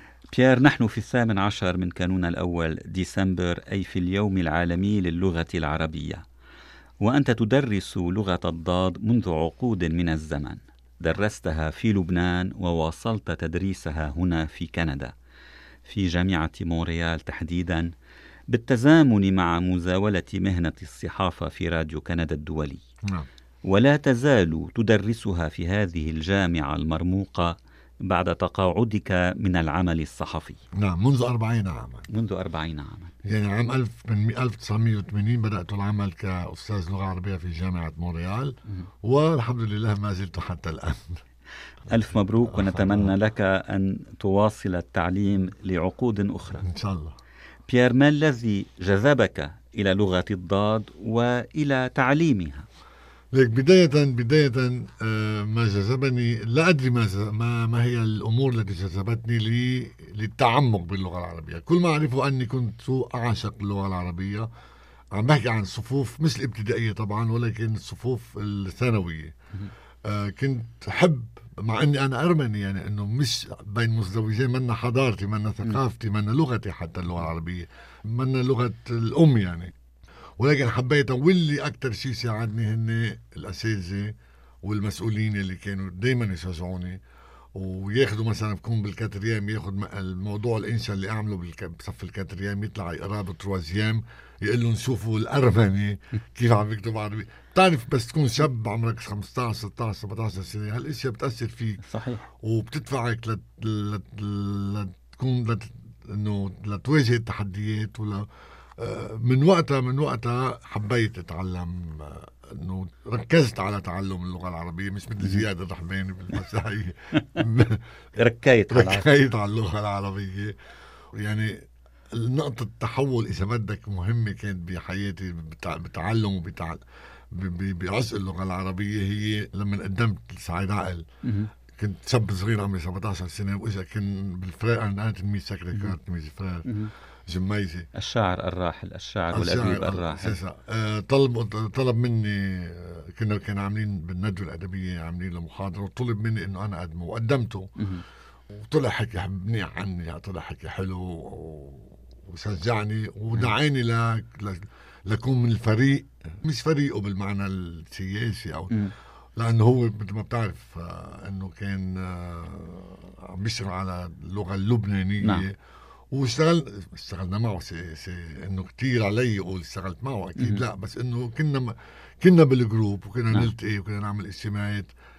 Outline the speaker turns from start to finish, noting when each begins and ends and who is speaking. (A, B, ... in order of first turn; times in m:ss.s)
0:00.3-0:06.2 A
0:07.0-0:15.1 A
0:15.8-0:17.9 A
0:18.5-0:22.8 A
0:23.7-0:27.5 A
0:28.0-0:30.6 A
0:30.8-0:32.1 B
0:32.1-0:33.1 A
0:33.3-0:41.2 B
0:41.9-0:46.6 A
0:42.5-0:43.1 B
0:46.6-0:47.2 B
0:47.7-0:52.7 A
0:53.3-1:04.5 B
1:05.1-1:09.3 B
1:10.1-1:19.7 B
1:20.4-1:24.1 B
1:24.6-1:27.0 B
1:27.6-1:41.8 B
1:41.8-1:42.2 A
1:42.4-1:48.3 B
1:48.8-1:57.8 B
1:58.2-1:59.1 A
1:58.7-2:00.5 B
2:01.2-2:01.5 B
2:02.1-2:06.8 B
2:07.3-2:11.0 B
2:11.2-2:11.5 A
2:11.8-2:16.7 B
2:16.7-2:16.9 A
2:17.3-2:17.9 B
2:17.9-2:20.4 A
2:19.3-2:27.7 B
2:27.8-2:28.0 A
2:28.5-2:38.8 B
2:39.4-2:45.5 B
2:46.1-2:54.9 B
2:50.4-2:50.6 A